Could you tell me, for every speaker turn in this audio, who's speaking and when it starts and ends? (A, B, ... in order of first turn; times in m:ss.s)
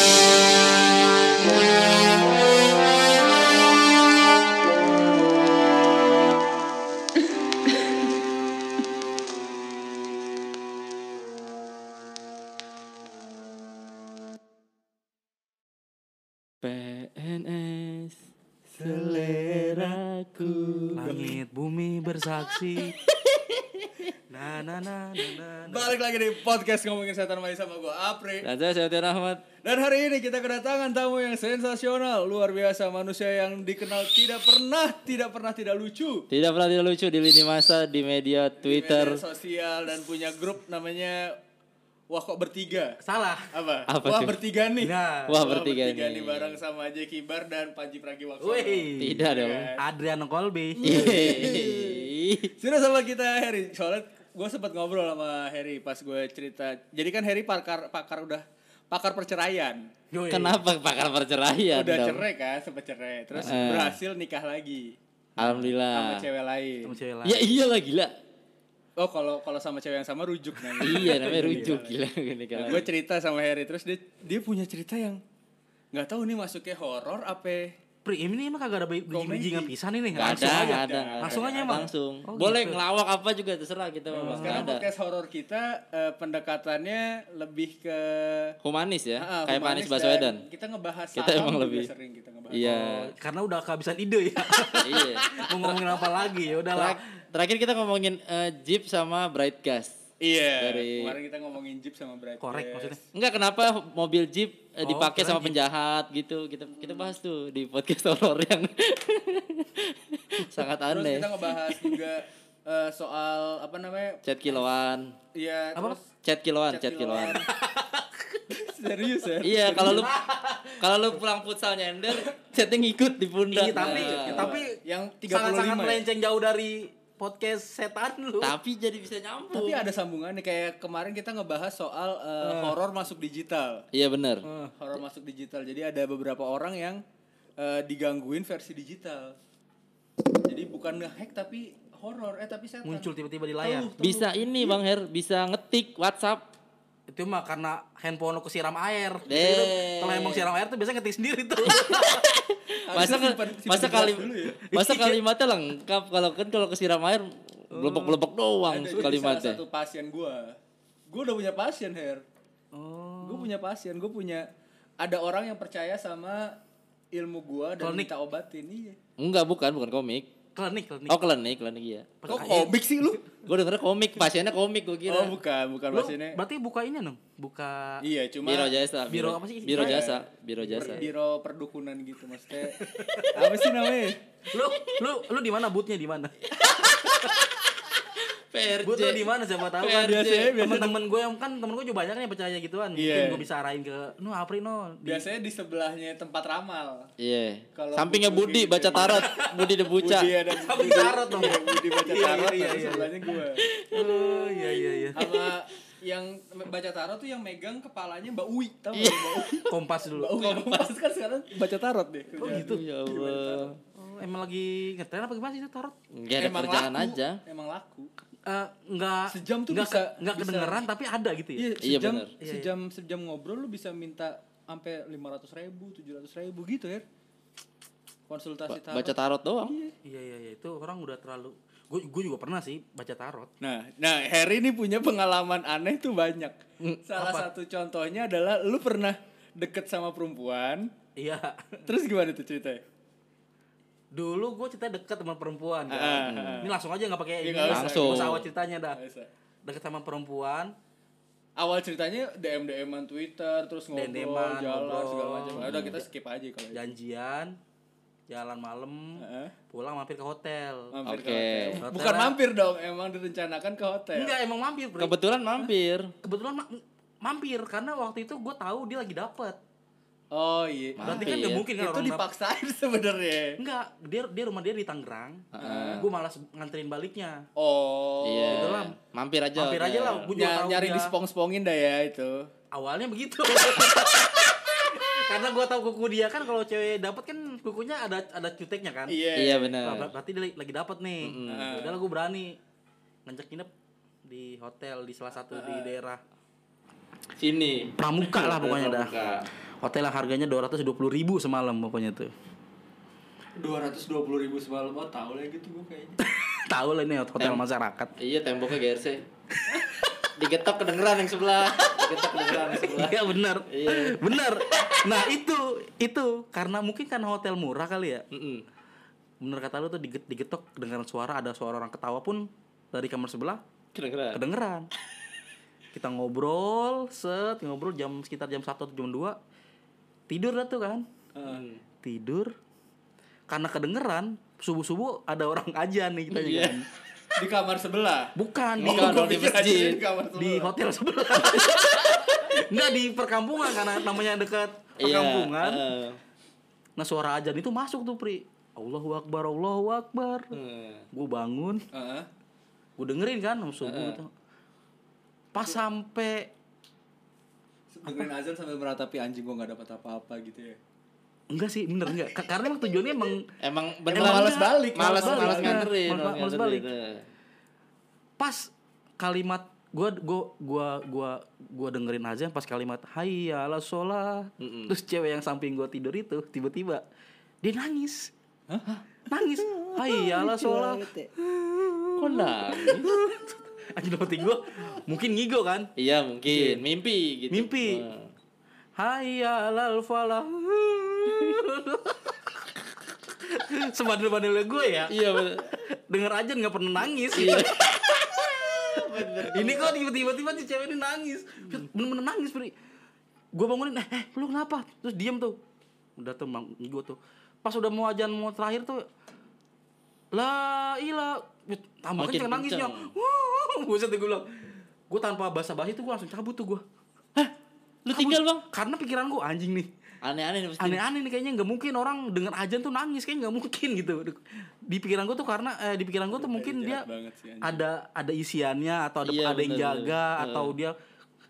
0:16.6-0:18.2 A
0:18.8-0:21.0 A
0:18.8-0:21.4 B
0:21.0-0:23.0 C
0:22.8-0:24.1 A
0:24.3-0:26.0 C
0:25.7-0:28.5 B
0:28.4-0:29.4 A
0:29.6-0:36.3 B
0:36.3-0:39.2 A
0:38.6-0:41.4 B
0:42.1-0:43.0 B
0:43.0-0:43.5 C
0:43.5-0:49.8 B
0:43.9-0:44.4 A
0:44.8-0:45.4 C
0:45.3-0:46.6 A
0:48.4-0:49.2 C
0:49.0-0:49.7 A
0:49.8-0:51.7 C
0:50.8-0:52.1 B
0:50.8-0:52.5 A
0:52.6-0:59.8 B
1:00.1-1:00.6 C
1:00.3-1:02.2 A
1:01.7-1:04.9 B
1:03.4-1:03.6 C
1:03.4-1:04.0 A
1:05.4-1:05.7 C
1:05.4-1:06.2 A
1:05.9-1:06.9 B
1:06.8-1:07.6 C
1:07.2-1:08.1 A
1:09.0-1:12.0 B
1:10.8-1:11.8 C
1:10.8-1:12.9 A
1:12.6-1:15.2 B
1:15.9-1:17.6 B
1:18.0-1:22.8 C
1:19.1-1:21.9 B
1:20.2-1:24.9 A
1:24.1-1:24.7 C
1:24.2-1:28.5 B
1:28.6-1:30.4 A
1:29.2-1:32.7 B
1:31.2-1:31.9 A
1:32.5-1:33.1 A
1:32.6-1:37.0 C
1:34.6-1:35.8 B
1:34.8-1:35.5 A
1:36.7-1:40.0 A
1:40.2-1:43.0 B
1:40.6-1:41.2 A
1:42.4-1:43.0 C
1:43.1-1:51.5 A
1:44.8-1:45.6 C
1:50.9-1:54.2 B
1:54.2-1:55.2 A
1:55.3-1:56.1 B
1:56.2-1:57.4 A
1:56.7-1:57.5 B
1:57.5-1:58.5 C
1:58.5-2:00.1 B
1:59.4-2:00.1 A
1:59.5-2:00.9 C
2:00.8-2:04.5 A
2:03.5-2:04.8 C
2:03.7-2:06.0 B
2:05.3-2:08.6 C
2:08.4-2:09.8 A
2:09.5-2:13.8 B
2:12.4-2:12.8 C
2:13.9-2:14.4 A
2:14.5-2:17.0 B
2:17.6-2:19.4 B
2:20.5-2:23.1 B
2:22.8-2:23.9 C
2:23.6-2:24.8 B
2:24.0-2:26.4 A
2:27.1-2:32.3 C
2:29.3-2:30.5 A
2:31.6-2:39.6 A
2:32.9-2:34.6 B
2:34.6-2:35.2 C
2:37.7-2:38.2 C
2:38.7-2:40.6 B
2:41.1-2:42.2 B
2:42.7-2:43.5 C
2:43.2-2:44.5 B
2:45.0-2:46.6 B
2:47.1-2:49.0 B
2:47.8-2:48.1 C
2:49.2-2:50.3 A
2:50.6-2:51.2 C
2:51.1-2:52.2 A
2:52.2-2:52.8 C
2:52.3-2:53.2 B
2:53.4-2:55.3 A
2:55.1-2:56.4 B
2:55.9-2:58.0 C
2:58.0-2:58.7 B
2:58.4-3:01.0 A
2:59.1-3:00.1 C
2:59.7-3:02.8 B
3:00.6-3:01.1 C
3:02.7-3:03.7 C
3:02.8-3:03.4 A
3:03.3-3:04.2 B
3:04.5-3:06.4 C
3:04.6-3:05.0 A
3:06.4-3:10.5 A
3:08.8-3:15.3 C
3:09.9-3:11.0 B
3:13.0-3:13.5 B
3:15.0-3:17.1 B
3:17.2-3:20.3 A
3:17.8-3:19.3 B
3:19.2-3:19.7 C
3:20.0-3:23.6 B
3:20.5-3:23.4 C
3:23.6-3:25.5 A
3:23.9-3:25.2 C
3:25.2-3:33.7 B
3:28.9-3:29.6 A
3:29.7-3:30.4 C
3:30.4-3:31.0 A
3:32.4-3:32.8 C
3:32.5-3:33.7 A
3:34.0-3:36.0 C
3:36.1-3:37.4 A
3:36.4-3:38.1 B
3:38.5-3:41.7 C
3:39.3-3:40.8 B
3:41.6-3:47.0 B
3:41.8-3:42.3 A
3:42.4-3:42.7 C
3:48.3-3:49.9 B
3:48.7-3:49.8 A
3:50.0-3:53.5 C
3:53.6-4:00.9 B
3:57.2-3:57.5 C
4:01.2-4:01.9 C
4:01.9-4:02.8 B
4:04.1-4:09.0 C
4:05.9-4:06.7 B
4:06.2-4:06.6 A
4:07.4-4:09.3 B
4:07.7-4:08.4 A
4:09.6-4:10.8 C
4:11.6-4:16.8 B
4:13.9-4:16.0 C
4:15.6-4:16.0 A
4:16.7-4:17.6 C
4:18.3-4:20.9 C
4:19.2-4:19.5 B
4:20.9-4:24.4 B
4:21.1-4:21.8 A
4:21.8-4:22.4 C
4:24.1-4:25.1 C
4:25.0-4:26.1 A
4:26.2-4:29.6 C
4:30.3-4:33.6 B
4:31.0-4:31.6 A
4:31.0-4:32.2 C
4:33.6-4:37.5 C
4:35.5-4:36.0 A
4:35.6-4:36.1 B
4:37.6-4:38.8 B
4:38.2-4:40.3 A
4:38.5-4:38.9 C
4:39.6-4:41.1 C
4:40.3-4:42.5 B
4:42.7-4:49.2 C
4:49.1-4:49.8 B
4:49.3-4:50.1 A
4:49.8-4:52.6 C
4:51.2-4:51.7 A
4:51.5-4:52.0 B
4:53.3-4:53.7 C
4:54.2-4:56.2 C
4:55.5-4:55.9 B
4:57.4-4:59.5 A
4:58.0-4:59.1 C
4:59.8-5:02.3 C
5:03.6-5:06.2 B
5:06.2-5:08.1 C
5:08.2-5:09.2 A
5:09.7-5:09.9 C
5:10.4-5:15.2 A
5:12.0-5:18.2 C
5:18.3-5:18.6 A
5:19.4-5:23.6 C
5:24.0-5:24.4 A
5:24.3-5:24.9 C
5:25.9-5:29.4 C
5:30.3-5:31.1 C
5:31.4-5:31.6 B
5:31.5-5:31.8 A
5:32.0-5:32.5 C
5:33.5-5:36.8 C
5:36.3-5:36.8 A
5:37.4-5:40.7 B
5:38.4-5:39.7 C
5:38.8-5:40.0 A
5:40.4-5:45.9 C
5:45.0-5:46.2 A
5:47.0-5:50.6 C
5:50.5-5:51.1 A
5:51.1-5:51.8 C
5:51.9-5:52.3 B
5:53.0-5:54.3 C
5:53.8-5:54.2 A
5:55.5-5:56.5 C
5:57.9-6:00.8 B
6:01.5-6:03.5 C
6:03.6-6:07.2 A
6:04.1-6:05.9 B
6:04.2-6:06.9 C
6:08.4-6:17.0 C
6:14.6-6:15.0 A
6:17.6-6:18.3 C
6:18.7-6:19.0 B
6:19.3-6:25.9 C
6:19.6-6:21.3 B
6:22.2-6:23.2 A
6:26.0-6:28.3 A
6:26.5-6:26.8 C
6:27.5-6:28.0 C
6:29.0-6:42.8 C
6:35.1-6:35.7 A
6:37.3-6:37.8 A
6:38.9-6:40.0 A
6:43.6-6:45.6 C
6:46.2-6:49.1 C
6:50.3-6:56.8 C
6:52.2-6:53.1 A
6:58.0-6:58.6 A
6:58.1-6:59.9 C
7:00.2-7:01.0 A
7:00.8-7:07.1 C
7:06.3-7:07.8 B
7:07.6-7:11.0 C
7:09.2-7:10.7 A